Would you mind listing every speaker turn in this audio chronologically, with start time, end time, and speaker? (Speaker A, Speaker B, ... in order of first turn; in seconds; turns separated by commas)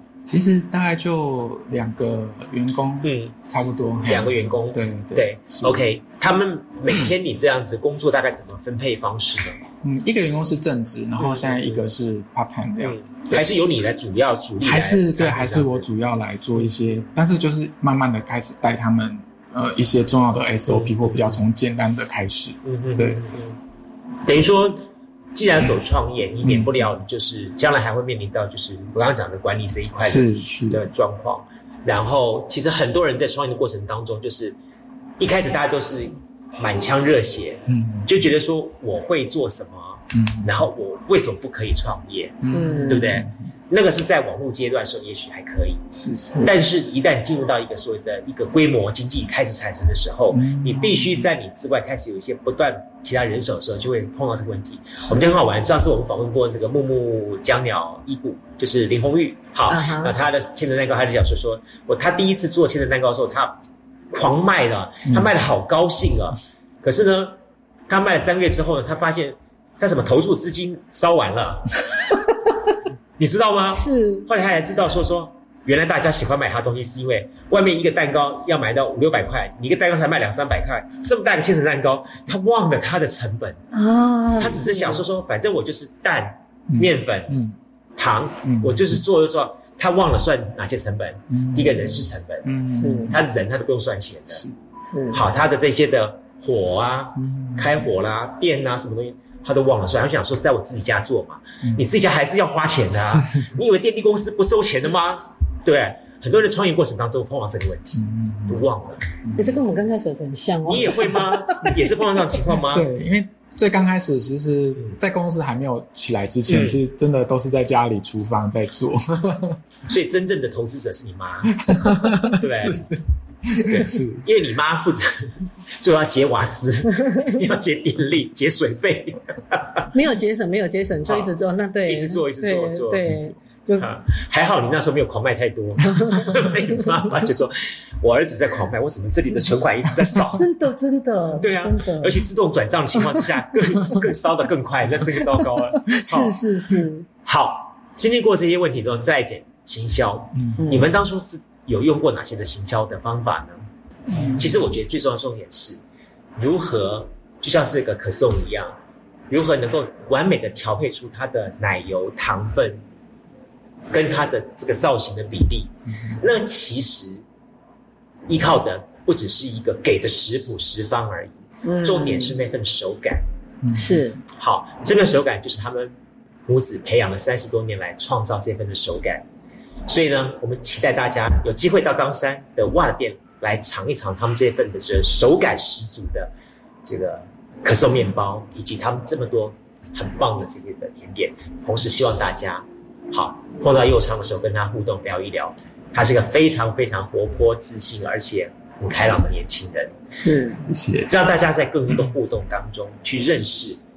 Speaker A: 0.3-5.9, Speaker B: 3.0-3.3, Speaker B: 4.0-9.6, Speaker A: 6.9-7.1, Speaker A: 9.8-13.6, Speaker B: 11.2-11.8, Speaker B: 12.8-15.9, Speaker A: 14.6-23.2, Speaker B: 20.7-21.4, Speaker B: 22.6-23.6, Speaker B: 24.2-24.8, Speaker B: 25.3-34.5, Speaker A: 26.4-26.9, Speaker A: 30.0-30.9, Speaker B: 35.2-45.8, Speaker A: 37.7-38.1, Speaker A: 40.1-40.5, Speaker A: 42.4-43.3, Speaker C: 42.5-43.1, Speaker A: 45.9-46.5, Speaker B: 46.4-63.6, Speaker A: 50.3-51.3, Speaker A: 55.0-55.3, Speaker C: 59.7-60.1, Speaker B: 64.1-67.3, Speaker B: 67.9-71.8, Speaker B: 73.2-83.6, Speaker C: 73.7-74.3, Speaker C: 83.7-85.0, Speaker B: 84.3-87.4, Speaker A: 86.7-87.5, Speaker B: 88.0-92.5, Speaker A: 88.4-89.0, Speaker A: 91.3-93.2, Speaker C: 92.7-93.1, Speaker B: 93.1-94.4, Speaker C: 94.8-95.2, Speaker B: 95.1-109.0, Speaker A: 97.2-97.9, Speaker A: 103.0-103.4, Speaker A: 108.0-108.6, Speaker A: 109.2-109.6, Speaker C: 109.4-111.7, Speaker B: 110.7-112.9, Speaker A: 112.6-119.6, Speaker B: 116.5-116.8, Speaker B: 119.9-121.6, Speaker A: 121.6-124.2, Speaker B: 122.4-122.9, Speaker B: 123.6-129.8, Speaker C: 129.9-133.9, Speaker B: 131.0-131.3, Speaker B: 131.8-133.1, Speaker A: 133.0-133.4, Speaker B: 133.8-140.4, Speaker C: 140.3-142.2, Speaker B: 141.4-146.3, Speaker C: 145.9-147.1, Speaker B: 147.2-153.6, Speaker C: 150.6-150.9, Speaker A: 154.2-154.4, Speaker B: 154.4-155.8, Speaker B: 156.4-158.7, Speaker B: 159.3-162.8, Speaker B: 163.9-167.2, Speaker B: 168.3-173.2, Speaker C: 171.6-172.3, Speaker A: 173.6-174.1, Speaker C: 173.7-174.2, Speaker B: 174.3-175.9, Speaker B: 176.5-179.2, Speaker B: 179.9-186.3, Speaker B: 186.8-199.9, Speaker C: 200.1-200.6, Speaker A: 200.7-201.1, Speaker B: 201.1-203.8